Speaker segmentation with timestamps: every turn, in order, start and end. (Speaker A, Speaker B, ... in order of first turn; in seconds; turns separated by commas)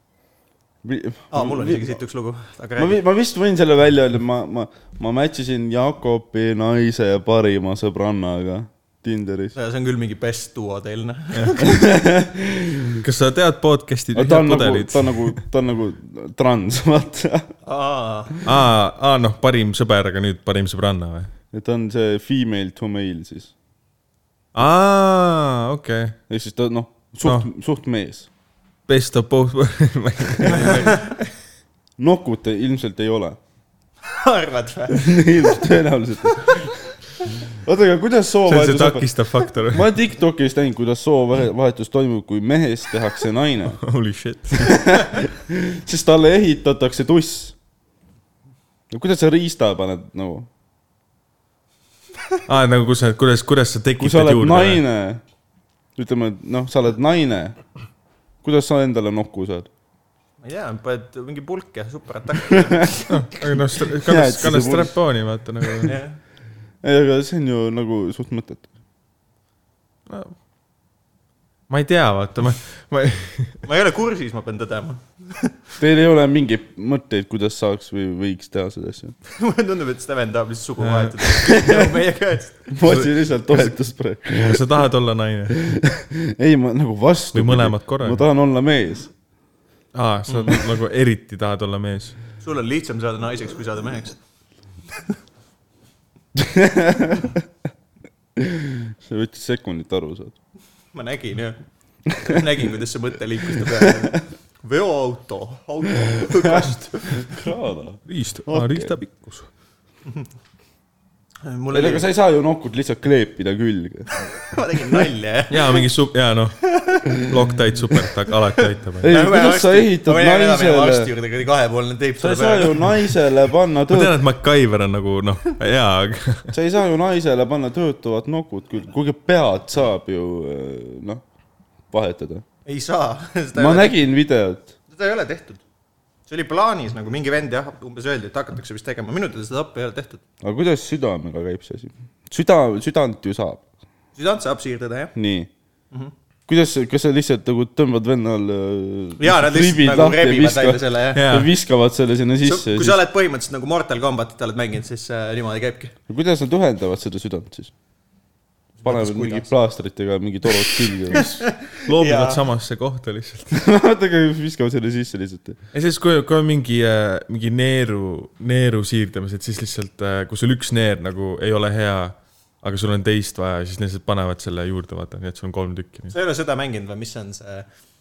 Speaker A: 0.8-2.0, Speaker B: 1.3-3.0, Speaker A: 2.8-9.5, Speaker B: 9.5-11.8, Speaker A: 11.6-13.0, Speaker C: 13.0-15.4, Speaker A: 14.1-17.5, Speaker B: 17.6-18.4, Speaker C: 18.4-21.3, Speaker A: 21.5-23.5, Speaker C: 24.5-26.2, Speaker A: 26.3-28.3, Speaker C: 28.9-31.2, Speaker A: 30.4-30.9, Speaker B: 30.5-31.1, Speaker A: 32.0-33.4, Speaker B: 34.0-35.7, Speaker A: 34.9-36.9, Speaker A: 37.5-39.1, Speaker C: 38.5-39.9, Speaker A: 39.7-43.8, Speaker C: 43.8-44.8, Speaker A: 44.6-47.5, Speaker A: 48.9-50.5, Speaker C: 52.5-54.8, Speaker A: 54.0-55.2, Speaker A: 56.0-57.6, Speaker A: 58.4-59.7, Speaker B: 60.4-63.0, Speaker C: 63.1-65.9, Speaker A: 63.9-64.9, Speaker B: 65.8-66.2, Speaker A: 66.8-68.7, Speaker C: 70.1-70.3, Speaker C: 71.7-73.6, Speaker B: 73.6-75.6, Speaker A: 75.8-79.1, Speaker B: 79.3-82.7, Speaker C: 80.8-81.3, Speaker A: 81.5-81.8, Speaker A: 82.7-84.7, Speaker C: 82.8-83.8, Speaker C: 84.3-85.6, Speaker A: 85.6-89.1, Speaker C: 87.3-88.2, Speaker C: 89.9-92.2, Speaker B: 90.3-90.6, Speaker B: 92.4-94.2, Speaker A: 96.3-97.4, Speaker A: 98.3-100.3, Speaker B: 100.9-107.4, Speaker A: 103.6-104.1, Speaker A: 106.5-108.9, Speaker C: 108.1-109.5, Speaker B: 111.4-112.1, Speaker A: 111.7-114.1, Speaker B: 114.3-115.8, Speaker C: 115.5-119.1, Speaker B: 116.7-117.2, Speaker A: 119.0-121.1, Speaker B: 119.0-123.0, Speaker A: 122.2-124.2, Speaker C: 123.9-126.5, Speaker A: 126.5-131.2, Speaker A: 131.9-132.4, Speaker B: 132.7-134.0, Speaker A: 133.5-134.7, Speaker B: 134.9-135.6, Speaker B: 136.3-140.2, Speaker A: 140.4-143.6, Speaker B: 144.2-145.1, Speaker A: 145.1-145.5, Speaker A: 146.5-153.0, Speaker B: 149.2-151.2, Speaker C: 151.1-151.5, Speaker B: 152.4-155.9, Speaker A: 156.1-157.7, Speaker B: 158.8-159.5, Speaker A: 158.8-161.3, Speaker B: 161.1-162.4, Speaker C: 161.7-163.6, Speaker A: 163.5-165.6, Speaker C: 165.7-176.1, Speaker B: 176.1-177.7